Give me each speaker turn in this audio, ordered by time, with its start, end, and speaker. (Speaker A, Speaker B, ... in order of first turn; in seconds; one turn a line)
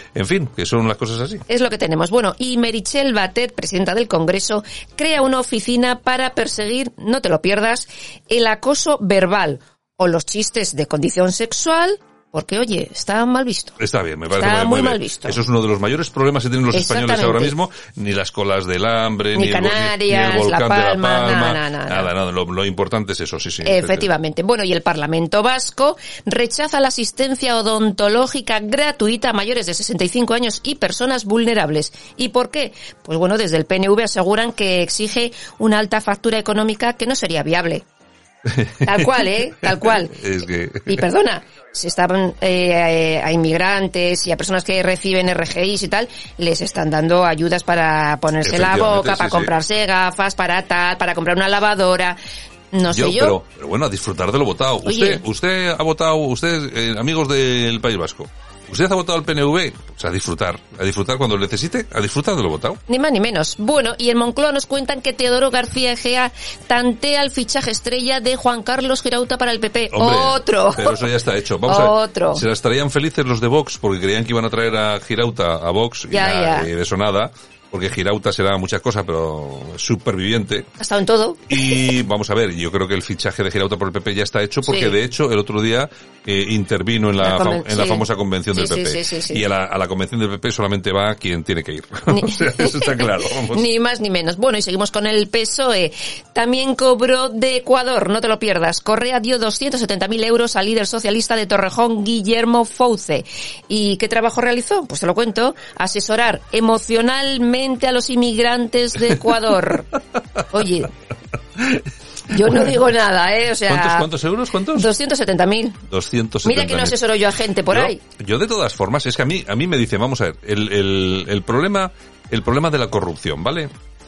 Speaker A: 0.1-1.4
Speaker B: 1.5-13.8
Speaker A: 13.8-24.1
Speaker B: 14.4-15.4
Speaker B: 16.7-17.5
Speaker B: 19.4-22.1
Speaker B: 23.6-37.8
Speaker A: 38.5-41.0
Speaker B: 38.8-40.2
Speaker B: 40.9-52.2
Speaker A: 48.4-49.5
Speaker B: 52.7-53.3
Speaker A: 52.9-62.8
Speaker B: 54.8-55.2
Speaker B: 62.9-71.0
Speaker A: 69.9-80.7
Speaker B: 71.7-72.4
Speaker B: 76.1-76.7
Speaker B: 80.8-81.8
Speaker A: 81.5-93.6
Speaker B: 84.7-84.9
Speaker B: 87.2-88.0
Speaker B: 88.5-89.4
Speaker B: 92.1-109.9
Speaker B: 110.5-110.9
Speaker A: 111.6-111.8
Speaker B: 112.3-114.0
Speaker A: 113.7-114.9
Speaker B: 114.8-115.8
Speaker A: 115.9-117.0
Speaker B: 116.4-118.0
Speaker A: 117.7-123.7